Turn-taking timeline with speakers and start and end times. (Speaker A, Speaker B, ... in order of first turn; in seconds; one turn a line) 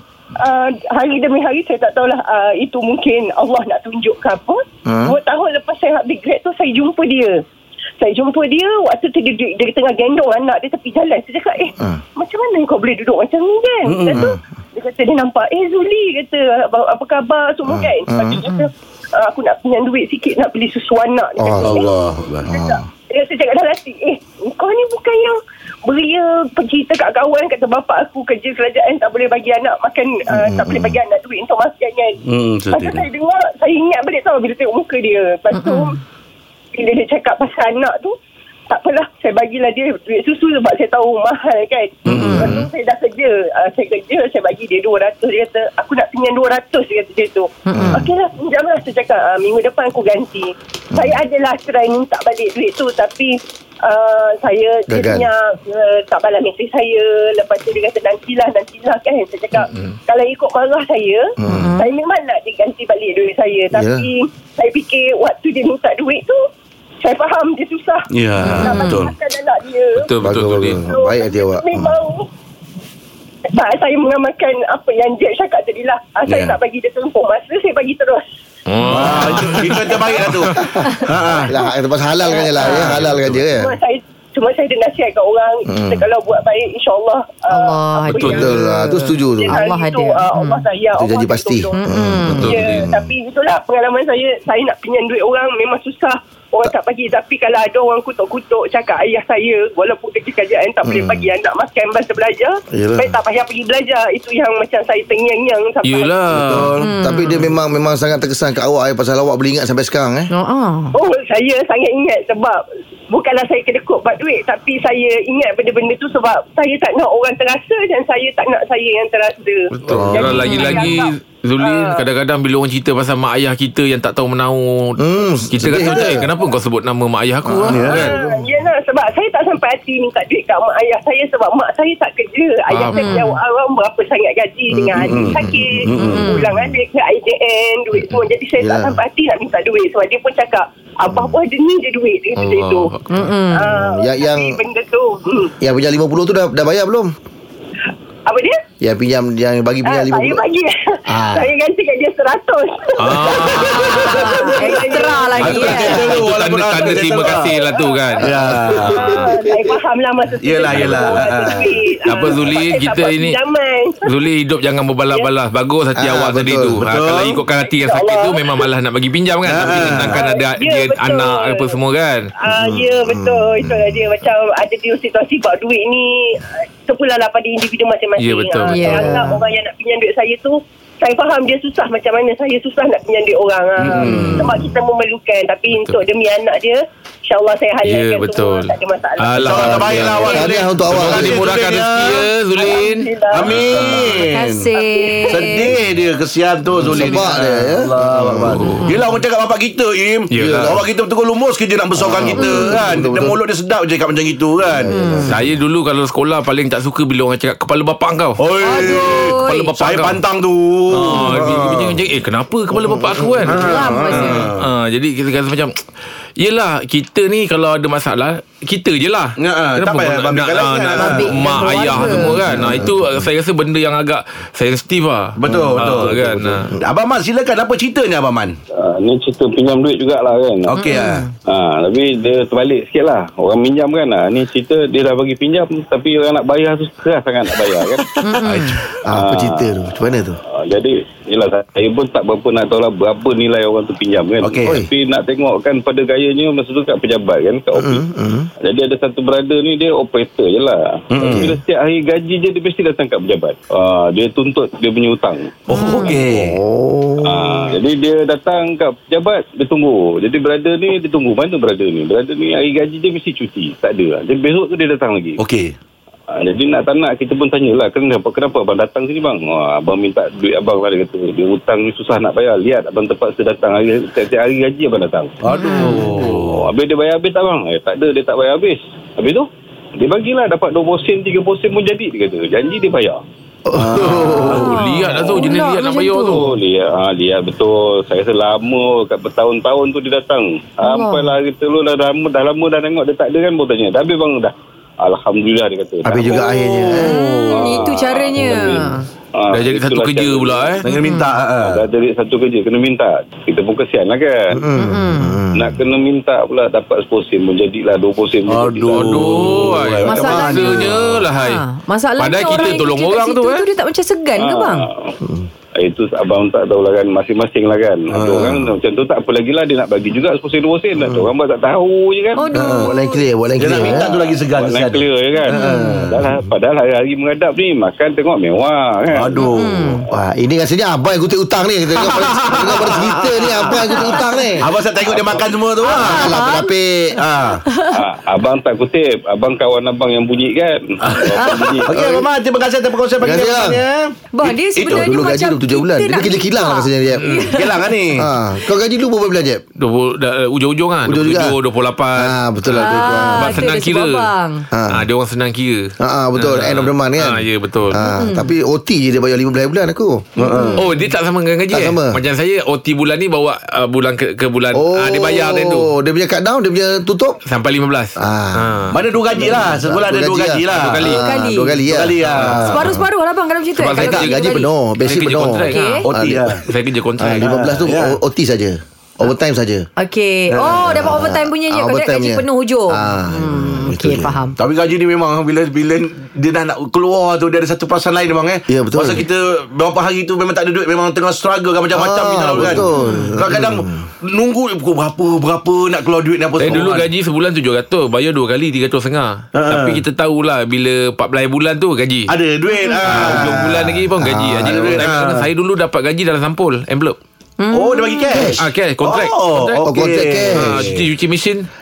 Speaker A: 0.3-7.4
Speaker B: 4.8-5.2
Speaker A: 8.0-32.2
Speaker C: 13.8-14.3
Speaker B: 17.7-18.4
Speaker B: 21.4-21.9
Speaker C: 21.6-22.5
Speaker B: 22.4-22.8
Speaker B: 30.3-31.0
Speaker C: 32.2-33.1
Speaker A: 32.7-36.0
Speaker D: 35.5-36.0
Speaker A: 36.7-38.1
Speaker A: 38.7-66.4
Speaker C: 42.1-42.6
Speaker D: 42.1-42.5
Speaker D: 47.7-48.0
Speaker B: 47.7-48.1
Speaker B: 54.9-55.3
Speaker E: 59.7-59.9
Speaker B: 61.4-61.7
Speaker D: 61.5-61.9
Speaker B: 63.7-64.1
Speaker A: 67.0-70.1
Speaker C: 68.1-69.1
Speaker E: 68.5-68.8
Speaker D: 68.5-68.9
Speaker E: 70.0-70.8
Speaker B: 70.2-72.0
Speaker A: 70.8-72.3
Speaker A: 73.5-78.2
Speaker C: 76.3-76.6
Speaker E: 78.7-80.7
Speaker C: 78.9-81.5
Speaker B: 81.5-83.8
Speaker A: 82.2-82.7
Speaker D: 82.6-82.8
Speaker E: 82.8-83.3
Speaker C: 82.9-83.1
Speaker A: 83.4-88.5
Speaker B: 85.7-86.1
Speaker D: 87.5-90.6
Speaker E: 88.1-88.5
Speaker B: 88.2-89.6
Speaker A: 89.4-91.8
Speaker B: 90.9-93.1
Speaker D: 91.8-92.5
Speaker E: 92.3-92.9
Speaker A: 92.4-106.3
Speaker B: 100.8-101.3
Speaker B: 102.7-103.2
Speaker E: 105.8-106.9
Speaker B: 106.3-110.3
Speaker C: 106.4-106.7
Speaker D: 106.8-107.4
Speaker D: 110.3-110.9
Speaker A: 110.9-122.0
Speaker E: 119.7-128.2
Speaker B: 119.8-120.5
Speaker D: 120.4-120.9
Speaker B: 125.0-126.3
Speaker A: 126.0-126.5
Speaker B: 127.5-128.1
Speaker C: 127.7-128.1
Speaker A: 127.8-142.9
Speaker D: 132.9-133.4
Speaker B: 134.7-135.9
Speaker C: 135.0-136.3
Speaker D: 136.0-136.4
Speaker B: 138.6-139.0
Speaker B: 141.1-141.3
Speaker E: 142.4-143.2
Speaker D: 143.1-143.7
Speaker A: 143.5-145.5
Speaker B: 143.7-144.6
Speaker B: 145.6-147.1
Speaker A: 148.2-148.6
Speaker B: 148.8-150.4
Speaker A: 149.8-155.9
Speaker B: 151.1-151.5
Speaker E: 153.0-154.3
Speaker D: 153.5-156.1
Speaker C: 155.4-157.5
Speaker E: 155.4-158.3
Speaker A: 157.3-158.2
Speaker C: 158.2-159.2
Speaker B: 158.2-159.4
Speaker E: 158.9-159.2
Speaker A: 158.9-164.1
Speaker C: 160.4-161.8
Speaker E: 160.7-161.0
Speaker E: 162.0-163.4
Speaker E: 164.0-172.3
Speaker B: 166.0-166.8
Speaker C: 166.8-167.4
Speaker A: 167.6-168.7
Speaker C: 169.4-170.2
Speaker A: 170.0-171.8
Speaker A: 172.4-190.0
Speaker B: 172.5-174.0
Speaker E: 178.2-179.2
Speaker D: 178.6-179.4
Speaker C: 183.8-184.4
Speaker E: 184.0-184.4
Speaker D: 184.1-184.4
Speaker E: 185.7-186.0
Speaker E: 187.8-194.1
Speaker C: 189.4-192.3
Speaker B: 189.6-191.5
Speaker A: 192.6-194.0
Speaker C: 193.3-194.7
Speaker D: 194.2-195.7
Speaker A: 194.8-195.6
Speaker C: 195.3-205.2
Speaker B: 196.8-198.6
Speaker E: 196.9-197.2
Speaker E: 198.5-199.0
Speaker E: 200.3-200.8
Speaker B: 200.4-200.8
Speaker B: 202.0-203.4
Speaker D: 202.4-202.7
Speaker B: 204.7-205.4
Speaker D: 204.9-205.3
Speaker E: 205.2-208.4
Speaker C: 208.4-212.0
Speaker D: 208.6-209.7
Speaker E: 209.4-210.2
Speaker E: 210.9-215.8
Speaker B: 212.8-213.5
Speaker C: 213.4-214.7
Speaker D: 213.5-214.4
Speaker E: 216.4-226.7
Speaker C: 219.4-222.9
Speaker D: 220.9-222.5
Speaker B: 222.3-223.2
Speaker C: 225.4-228.6
Speaker B: 225.5-225.8
Speaker F: 228.7-230.8
Speaker C: 230.7-231.2
Speaker D: 230.8-231.3
Speaker F: 231.4-238.1
Speaker D: 238.2-238.8
Speaker C: 238.4-238.8
Speaker B: 239.0-240.4
Speaker F: 239.1-239.9
Speaker F: 240.5-248.0
Speaker C: 244.4-244.8
Speaker B: 247.7-248.5
Speaker F: 248.6-255.6
Speaker C: 251.1-251.6
Speaker C: 255.7-256.6
Speaker D: 255.7-256.1
Speaker B: 256.1-257.7
Speaker F: 257.2-265.4
Speaker C: 265.4-265.7
Speaker F: 266.3-275.4
Speaker C: 275.4-276.7
Speaker D: 275.5-276.1
Speaker F: 276.1-283.2
Speaker B: 283.7-284.7
Speaker C: 283.7-285.4
Speaker E: 284.2-286.6
Speaker D: 284.5-286.5
Speaker F: 286.3-296.6
Speaker D: 290.8-291.3
Speaker B: 296.0-297.1
Speaker C: 296.4-297.1
Speaker D: 296.9-299.0
Speaker F: 297.5-300.8
Speaker E: 299.5-300.8
Speaker C: 300.8-301.8
Speaker D: 300.9-301.3
Speaker F: 301.6-304.6
Speaker B: 304.5-305.8
Speaker D: 304.8-305.4
Speaker F: 305.5-309.6
Speaker C: 308.5-311.3
Speaker E: 308.9-311.6
Speaker D: 310.1-314.9
Speaker E: 312.2-313.6
Speaker F: 314.4-315.1
Speaker B: 315.2-315.5
Speaker F: 315.8-322.5
Speaker C: 318.1-318.7
Speaker B: 321.0-321.3
Speaker D: 322.4-323.2
Speaker C: 322.5-322.9
Speaker B: 322.8-324.1
Speaker C: 323.6-326.2
Speaker F: 323.8-329.4
Speaker D: 325.5-326.0
Speaker B: 325.8-326.3
Speaker C: 329.1-330.0
Speaker D: 329.4-330.0
Speaker B: 330.1-334.7
Speaker C: 332.0-336.4
Speaker D: 333.7-334.2
Speaker D: 335.8-336.7
Speaker B: 335.9-337.2
Speaker C: 337.1-337.6
Speaker D: 337.6-338.0
Speaker F: 337.9-341.9
Speaker C: 341.0-345.3
Speaker D: 341.4-341.6
Speaker B: 343.2-343.8
Speaker D: 344.3-347.9
Speaker B: 344.9-347.4
Speaker E: 347.2-347.5
Speaker C: 347.5-348.3
Speaker B: 348.2-349.6
Speaker E: 349.8-354.3
Speaker B: 351.1-351.6
Speaker B: 352.2-353.6
Speaker D: 352.7-354.6
Speaker B: 354.7-355.0
Speaker E: 354.9-358.0
Speaker B: 356.0-360.4
Speaker D: 358.0-358.5
Speaker C: 360.4-360.9
Speaker D: 360.4-360.8
Speaker E: 360.8-365.9
Speaker B: 361.7-362.2
Speaker B: 364.7-367.4
Speaker E: 367.4-369.0
Speaker B: 368.2-368.8
Speaker C: 368.9-371.1
Speaker B: 369.4-373.0
Speaker E: 370.7-371.2
Speaker D: 371.2-371.8
Speaker C: 371.9-372.8
Speaker E: 372.3-372.7
Speaker D: 372.6-374.7
Speaker E: 373.8-376.1
Speaker B: 373.9-376.6
Speaker D: 375.7-376.0
Speaker C: 376.1-376.7
Speaker E: 376.6-377.5
Speaker B: 377.2-379.9
Speaker C: 377.4-378.2
Speaker D: 380.0-384.5
Speaker C: 380.5-380.8
Speaker B: 380.7-384.4
Speaker C: 384.6-397.1
Speaker B: 388.7-389.2
Speaker B: 391.9-394.1
Speaker D: 392.9-393.4
Speaker E: 396.6-402.3
Speaker C: 399.5-400.0
Speaker C: 402.3-404.1
Speaker E: 403.0-407.1
Speaker B: 404.2-405.0
Speaker C: 404.6-405.5
Speaker D: 407.6-408.3
Speaker C: 407.7-411.1
Speaker E: 408.6-409.9
Speaker B: 409.8-410.9
Speaker E: 410.5-411.7